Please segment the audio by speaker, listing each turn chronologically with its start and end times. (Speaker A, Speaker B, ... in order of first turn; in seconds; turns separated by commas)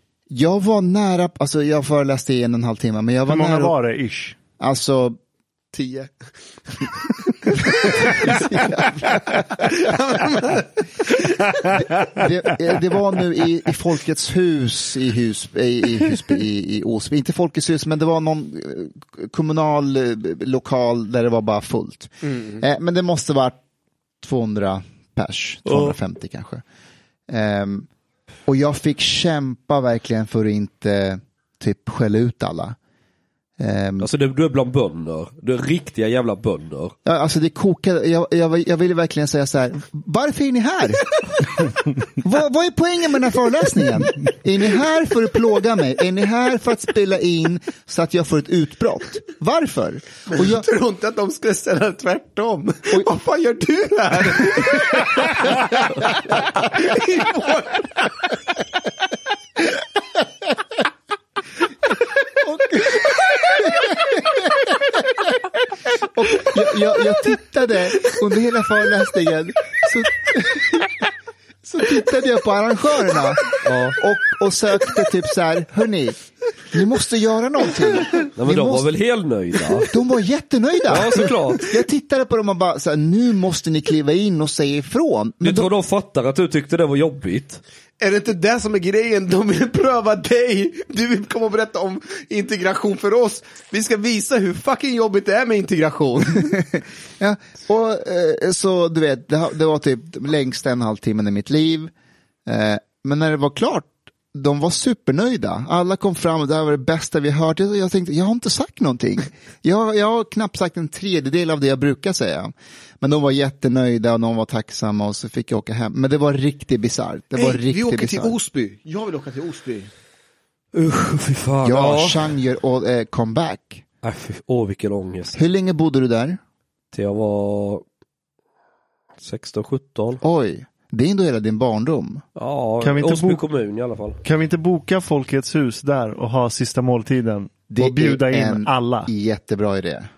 Speaker A: 0.3-3.8, Speaker B: 3.3-4.3, Speaker A: 4.6-5.2, Speaker A: 5.7-6.1, Speaker A: 7.4-9.9, Speaker C: 9.7-10.7, Speaker A: 11.7-23.6, Speaker A: 24.2-26.6, Speaker D: 25.7-25.9, Speaker A: 27.3-27.9, Speaker A: 28.4-32.8, Speaker A: 33.6-34.1, Speaker D: 34.0-36.9, Speaker A: 37.0-50.7, Speaker C: 50.3-58.1, Speaker A: 62.4-64.8, Speaker A: 66.0-70.8, Speaker A: 71.6-76.2, Speaker D: 73.6-74.0, Speaker A: 76.7-78.9, Speaker D: 78.4-79.9, Speaker A: 79.8-85.7, Speaker D: 80.9-81.7, Speaker D: 85.4-87.6, Speaker C: 88.0-96.6, Speaker A: 97.2-101.9, Speaker A: 102.5-118.3, Speaker C: 117.3-119.9, Speaker D: 120.7-122.2, Speaker A: 121.6-123.8, Speaker D: 124.0-125.4, Speaker A: 125.3-126.4, Speaker D: 126.9-127.8, Speaker D: 129.2-130.2, Speaker A: 130.2-132.2, Speaker D: 132.3-134.2, Speaker B: 132.8-133.4, Speaker B: 134.2-139.1, Speaker A: 137.7-140.1